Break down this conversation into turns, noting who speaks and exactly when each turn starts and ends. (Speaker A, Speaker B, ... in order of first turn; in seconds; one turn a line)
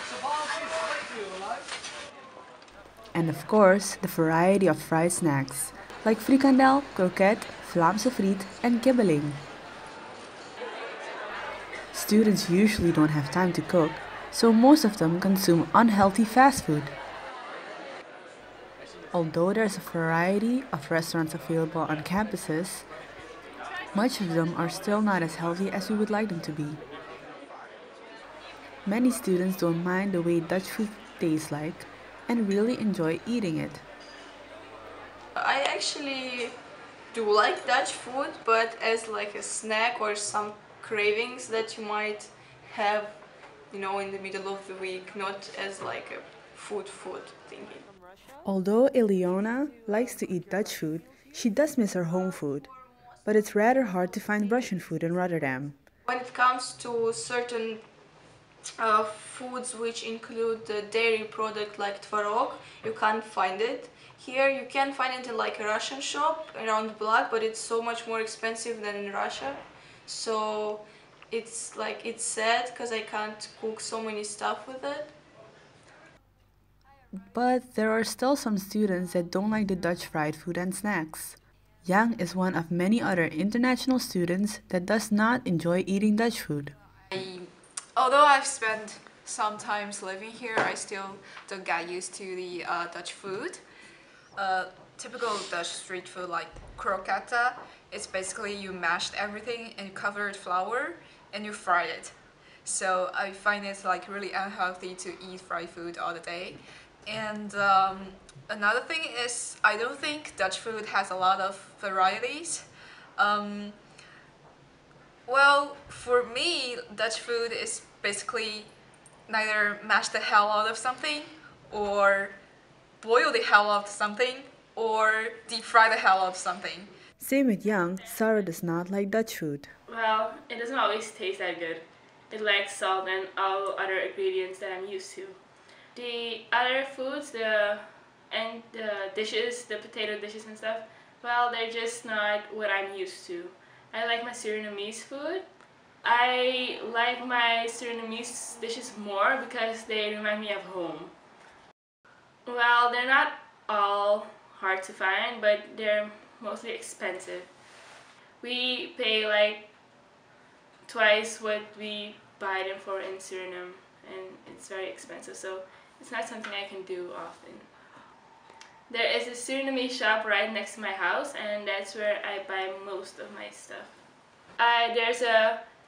Speaker A: 3.1-9.4
Speaker A: 11.9-16.9
Speaker A: 19.1-22.9
Speaker A: 23.9-26.8
Speaker A: 28.9-33.8
Speaker B: 35.4-36.6
Speaker B: 37.1-47.9
Speaker A: 48.5-52.7
Speaker A: 53.2-55.8
Speaker B: 56.1-57.9
Speaker B: 58.8-75.2
Speaker A: 77.3-86.7
Speaker C: 87.1-93.6
Speaker C: 94.4-113.8
Speaker C: 115.3-118.7
Speaker C: 119.3-122.4
Speaker C: 123.0-126.9
Speaker A: 127.2-129.7
Speaker D: 129.9-135.4
Speaker D: 135.9-145.4
Speaker D: 146.0-151.1
Speaker D: 152.4-157.5
Speaker D: 158.4-159.7
Speaker D: 160.9-167.7
Speaker D: 168.9-174.0
Speaker D: 174.6-175.7